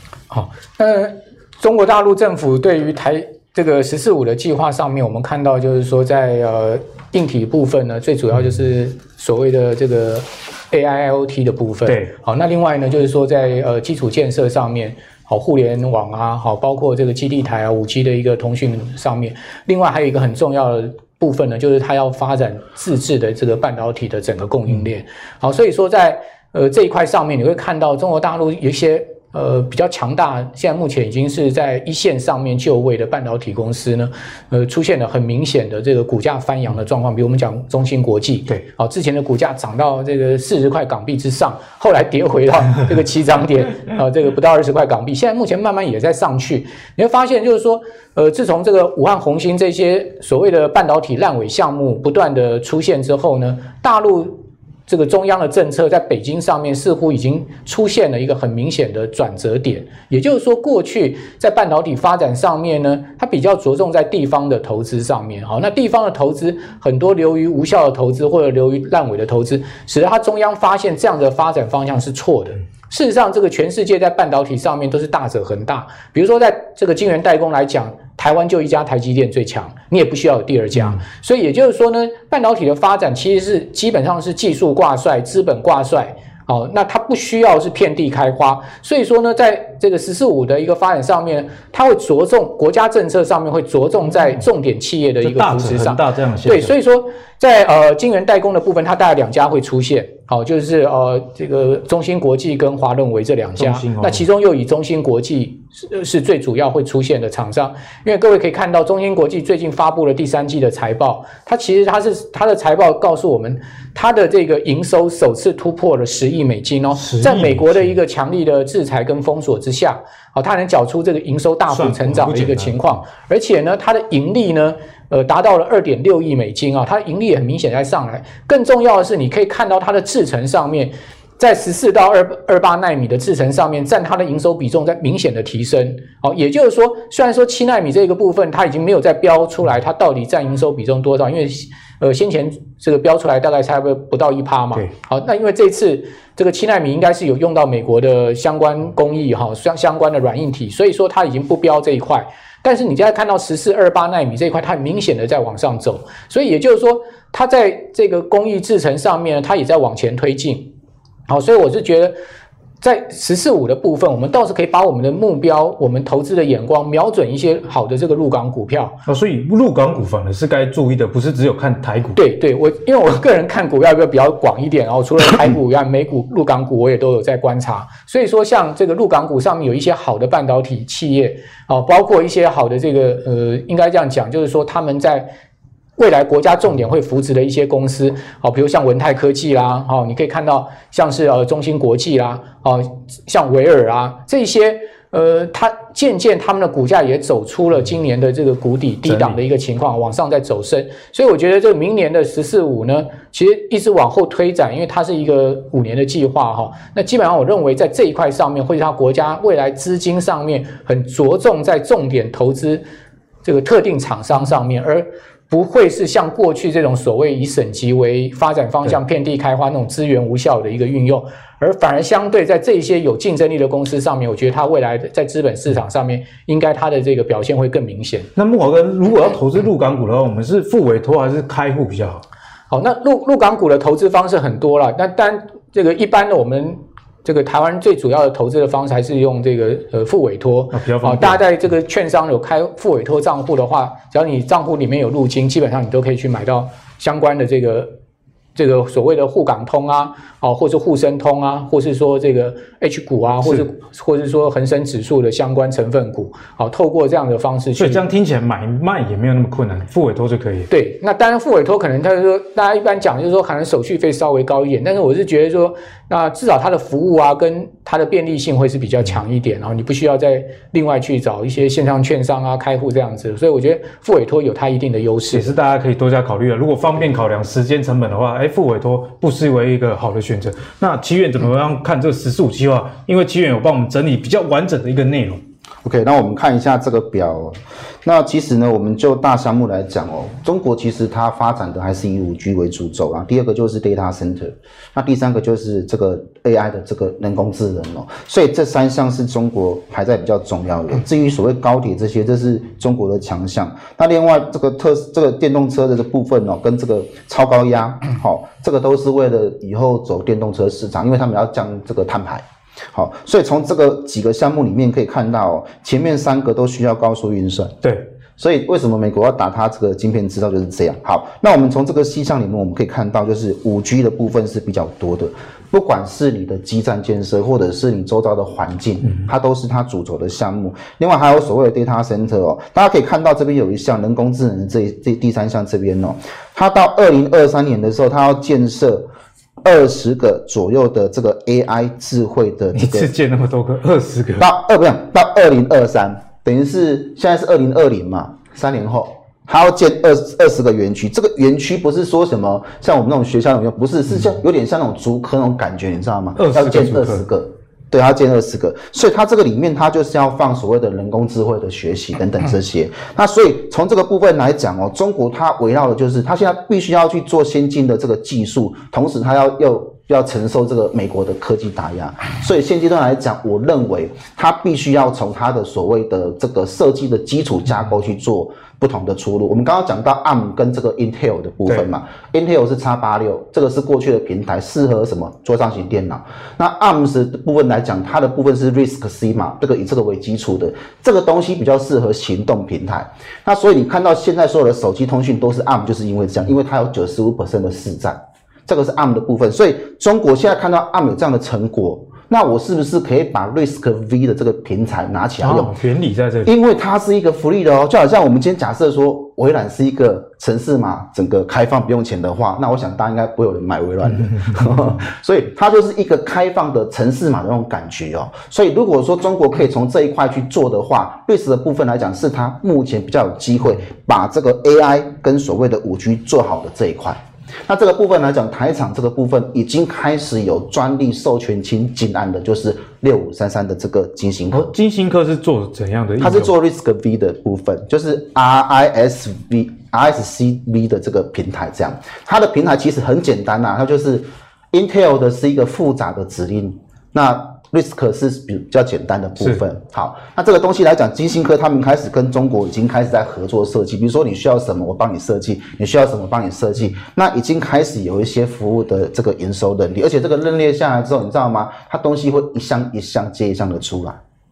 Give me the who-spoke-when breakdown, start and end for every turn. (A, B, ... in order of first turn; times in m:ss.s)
0:00.3-2:40.7 A
0:11.8-0:12.1 B
1:35.2-1:36.7 B
1:43.5-1:44.2 B
1:57.0-1:57.9 B
2:01.7-2:02.8 B
2:41.3-2:42.1 A
2:42.8-2:49.0 A
2:49.1-2:52.2 B
2:52.2-3:05.3 A
3:06.0-3:32.8 A
3:19.0-3:19.4 B
3:33.4-3:48.3 A
3:48.4-3:52.2 B
3:52.7-4:07.9 A
4:00.7-4:01.4 B
4:08.6-4:18.0 A
4:17.8-4:20.7 B
4:20.7-4:35.5 A
4:35.3-4:45.4 B
4:45.8-5:17.7 C
5:18.4-5:39.1 C
5:39.6-5:43.1 C
5:42.7-5:44.5 B
5:44.4-6:45.7 C
5:56.4-5:57.2 B
6:45.4-6:46.5 B
6:46.4-7:14.7 C
7:14.5-7:16.5 B
7:16.2-7:44.2 C